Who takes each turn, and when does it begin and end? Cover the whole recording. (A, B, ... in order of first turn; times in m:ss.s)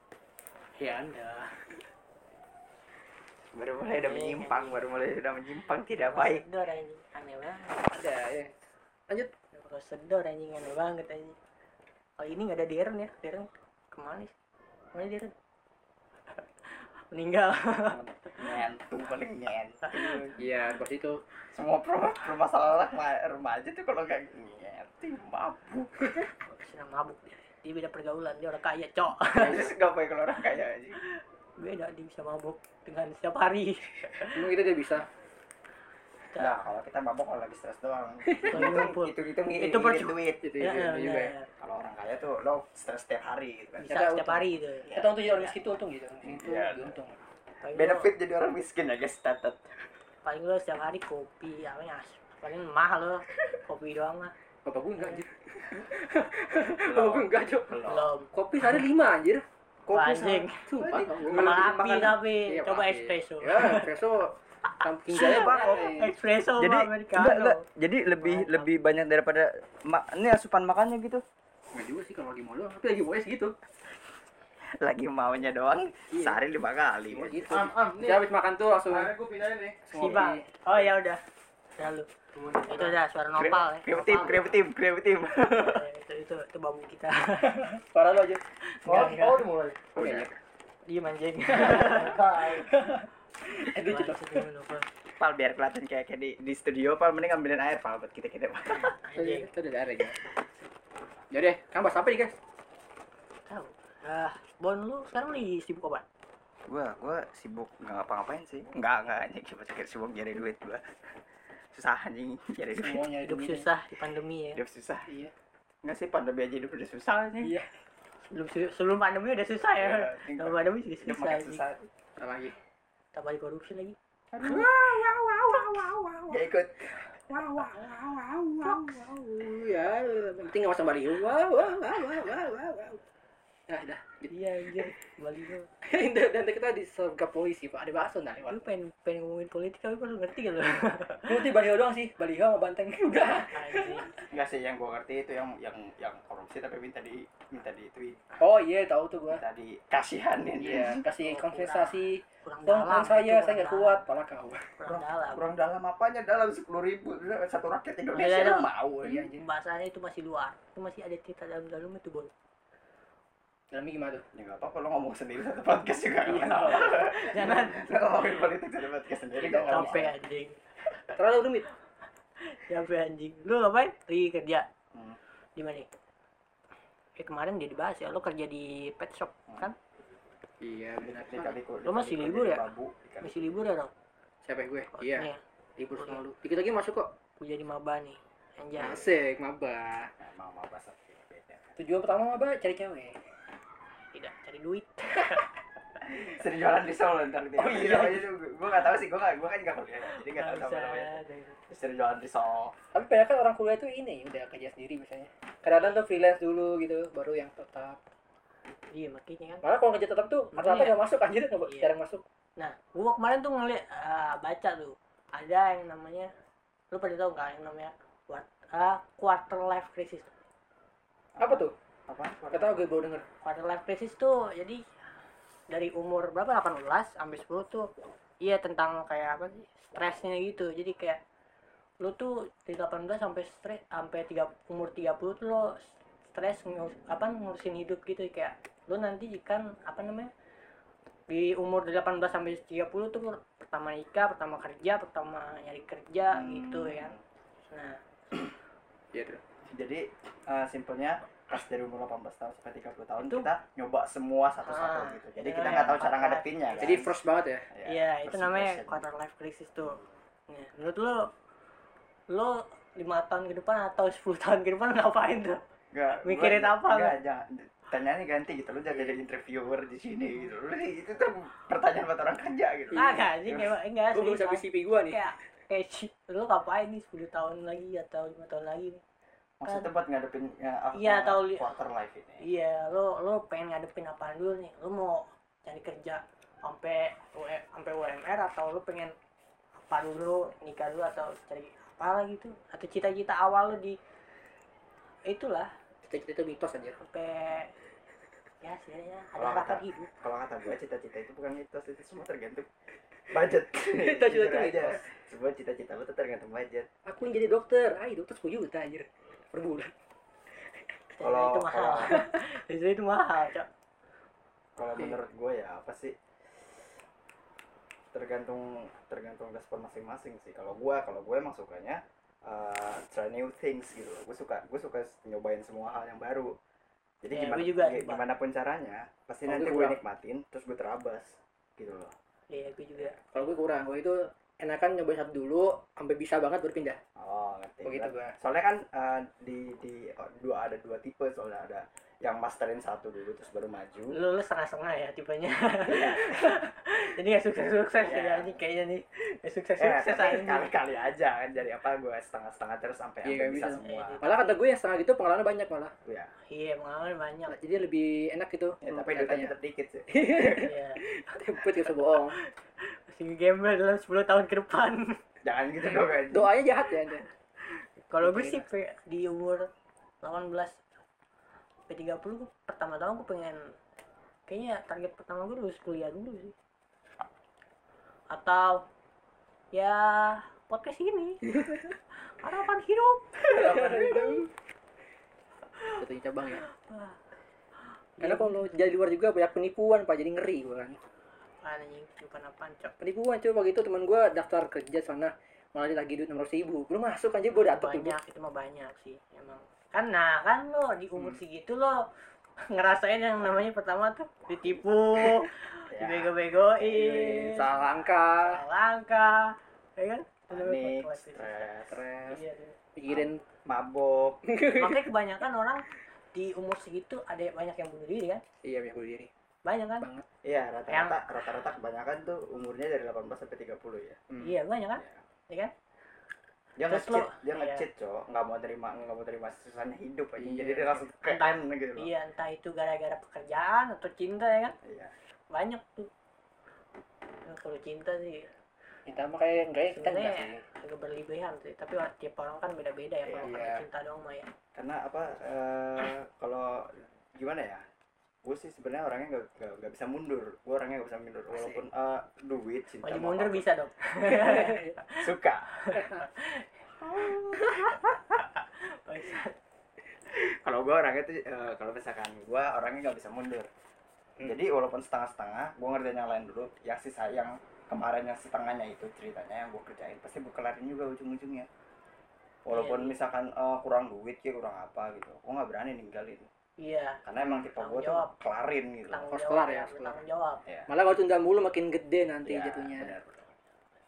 0:00.8-0:01.8 A
0:03.5-0:06.4 B
0:04.0-0:04.8 A
0:06.0-0:08.0 A
0:07.9-0:08.5 C
0:09.5-0:11.4 A
0:12.2-0:14.3 A
0:14.9-0:15.3 A
0:16.6-0:18.5 A
0:17.8-0:20.4 B
0:19.9-0:20.2 A
0:20.4-0:21.2 C
0:21.5-0:26.2 B
0:26.4-0:29.7 A
0:29.4-0:31.0 B
0:31.6-0:34.4 A
0:34.3-0:35.0 C
0:36.4-0:40.4 B
0:38.2-0:38.9 C
0:38.5-0:41.5 A
0:40.4-0:41.3 C
0:41.6-0:43.9 B
0:43.8-0:45.5 A
0:43.9-0:47.2 C
0:44.9-0:45.5 B
0:46.2-0:47.0 B
0:47.6-0:48.1 A
0:47.7-0:49.7 B
0:50.2-0:54.3 A
0:54.6-0:57.8 C
0:56.8-0:58.1 B
0:57.8-0:58.3 A
0:58.3-0:59.4 C
0:59.8-1:02.2 B
0:59.9-1:00.6 A
1:00.7-1:06.1 C
1:01.3-1:03.9 A
1:05.1-1:07.6 A
1:05.1-1:05.9 B
1:06.6-1:11.2 B
1:08.2-1:08.7 A
1:11.7-1:13.5 C
1:14.8-1:17.5 B
1:16.1-1:16.4 C
1:17.1-1:19.1 C
1:17.3-1:18.2 D
1:18.9-1:19.8 D
1:19.8-1:20.4 C
1:19.9-1:21.2 A
1:21.8-1:22.1 A
1:22.3-1:23.0 D
1:22.7-1:24.5 A
1:23.4-1:25.8 B
1:25.4-1:27.8 A
1:27.5-1:28.4 C
1:28.6-1:29.4 A
1:28.8-1:29.9 D
1:29.9-1:30.3 C
1:30.0-1:30.3 B
1:30.8-1:32.2 A
1:31.5-1:34.4 C
1:31.6-1:32.7 D
1:33.8-1:34.9 A
1:35.2-1:38.9 B
1:38.7-1:39.5 A
1:39.1-1:40.2 C
1:41.3-1:42.3 C
1:43.4-1:46.0 A
1:46.7-1:51.1 B
1:51.7-1:53.0 B
1:52.8-1:53.7 C
1:53.2-1:54.6 A
1:54.5-1:55.1 B
1:55.1-1:55.3 C
1:55.8-1:57.5 B
1:57.4-1:57.7 C
1:58.2-2:01.6 A
1:59.7-2:01.9 B
2:02.2-2:02.6 C
2:03.1-2:04.0 A
2:04.3-2:05.0 B
2:04.4-2:06.4 C
2:06.3-2:07.7 B
2:07.3-2:13.0 C
2:08.5-2:08.8 B
2:13.7-2:14.9 C
2:14.3-2:15.7 A
2:15.8-2:18.6 C
2:18.5-2:21.4 A
2:21.2-2:24.1 C
2:23.5-2:24.2 A
2:24.3-2:28.4 B
2:28.4-2:29.4 C
2:29.3-2:31.0 B
2:30.6-2:34.7 C
2:31.2-2:34.0 A
2:34.8-2:35.4 A
2:34.9-2:39.3 B
2:38.1-2:38.7 A
2:39.0-2:39.4 C
2:39.4-2:42.3 A
2:43.7-2:44.2 C
2:44.3-2:50.1 B
2:46.2-2:47.1 C
2:47.0-2:47.8 A
2:49.4-2:50.0 C
2:49.7-2:50.6 A
2:51.1-2:51.7 C
2:52.4-2:54.7 A
2:55.6-2:55.9 A
2:57.2-2:59.7 A
3:00.6-3:01.6 C
3:01.0-3:03.6 B
3:01.8-3:02.6 A
3:03.2-3:03.9 A
3:04.4-3:07.1 C
3:04.9-3:05.4 A
3:06.0-3:06.2 A
3:07.4-3:09.0 A
3:08.8-3:10.1 C
3:10.2-3:11.6 B
3:11.8-3:13.2 C
3:14.1-3:15.4 A
3:16.0-3:21.2 B
3:17.6-3:18.3 C
3:20.1-3:21.6 A
3:21.7-3:22.7 B
3:22.9-3:28.0 C
3:28.9-3:29.6 A
3:29.6-3:32.2 C
3:30.5-3:30.9 A
3:32.6-3:36.3 A
3:36.9-3:40.3 A
3:41.4-3:42.8 B
3:41.4-3:41.7 C
3:42.5-3:43.2 C
3:43.4-3:44.8 A
3:45.7-3:47.9 A
3:48.4-3:51.2 A
3:52.0-4:00.3 A
4:01.3-4:07.1 A
4:06.3-4:07.2 B
4:07.7-4:08.0 A
4:09.1-4:09.4 C
4:09.7-4:17.1 B
4:13.2-4:13.5 A
4:14.6-4:17.0 A
4:16.8-4:17.6 C
4:17.7-4:19.0 B
4:17.8-4:21.3 A
4:22.3-4:25.6 A
4:25.9-4:33.7 B
4:26.2-4:27.1 A
4:32.9-4:33.2 C
4:32.9-4:39.0 A
4:34.1-4:35.2 C
4:39.6-4:42.4 B
4:40.9-4:41.6 A
4:42.4-4:49.1 A
4:49.9-4:54.0 A
4:55.3-4:55.7 A
4:56.1-4:57.0 C
4:57.0-4:57.7 A
4:58.6-5:00.1 A
4:59.4-5:02.7 B
5:03.3-5:06.9 B
5:03.8-5:05.0 C
5:07.0-5:09.9 C
5:11.1-5:13.7 A
5:11.2-5:12.2 B
5:14.8-5:16.1 B
5:18.1-5:26.5 B
5:27.2-5:32.1 B
5:27.3-5:28.2 A
5:29.4-5:30.0 C
5:32.5-5:33.5 A
5:33.3-5:37.0 C
5:37.2-5:44.2 B
5:37.8-5:38.3 C
5:44.1-5:50.7 A
5:45.9-5:46.6 B
5:48.0-5:48.6 B
5:49.8-5:54.2 B
5:53.2-5:55.9 C
5:53.8-5:54.5 A
5:56.5-5:57.6 A
5:57.5-5:59.5 C
5:58.8-6:00.6 B
6:00.1-6:02.4 C
6:00.6-6:01.0 A
6:02.3-6:05.2 A
6:05.4-6:06.5 B
6:06.2-6:07.3 C
6:08.1-6:09.7 A
6:08.2-6:08.6 C
6:10.2-6:10.8 A
6:11.9-6:13.7 A
6:14.5-6:16.5 A
6:18.3-6:18.8 A
6:19.7-6:21.5 A
6:22.4-6:24.4 A
6:23.4-6:24.5 C
6:26.0-6:26.6 C
6:26.6-6:27.2 A
6:28.2-6:28.7 A
6:28.2-6:31.0 C
6:31.6-6:32.9 A
6:33.0-6:38.1 C
6:37.5-6:42.0 A
6:42.7-6:47.7 A
6:45.9-6:47.6 B
6:47.0-6:48.6 C
6:48.4-6:51.7 A
6:50.5-6:52.0 B
6:51.9-6:52.4 C
6:52.3-6:52.8 A
6:53.0-6:53.4 C
6:53.1-6:54.4 B
6:54.5-6:55.1 C
6:54.7-6:58.4 A
6:58.6-6:59.3 C
6:59.6-7:00.0 A
7:00.0-7:00.2 C
7:00.4-7:04.2 B
7:00.9-7:01.2 A
7:04.3-7:04.5 C
7:04.4-7:05.7 A
7:06.8-7:12.1 B
7:06.9-7:07.8 A
7:10.4-7:11.0 C
7:11.3-7:14.8 A
7:14.8-7:15.1 B
7:15.5-7:16.1 A
7:17.4-7:18.5 A
7:19.0-7:20.6 C
7:19.9-7:24.5 A
7:23.4-7:23.8 C
7:24.7-7:27.8 B
7:28.4-7:33.7 B
7:33.0-7:35.2 A
7:34.2-7:35.0 C
7:35.2-7:35.7 B
7:35.7-7:36.7 A
7:35.9-7:36.2 C
7:37.0-7:38.2 B
7:37.6-7:38.0 A
7:38.8-7:39.5 A
7:40.3-7:43.7 B
7:44.4-7:51.7 B
7:52.6-7:56.5 B
7:52.7-7:53.1 A
7:56.8-7:57.2 A
7:57.2-7:59.3 B
7:57.8-7:58.3 A
7:59.1-8:00.6 A
7:59.3-8:00.2 C
8:00.9-8:03.1 C
8:02.4-8:03.5 B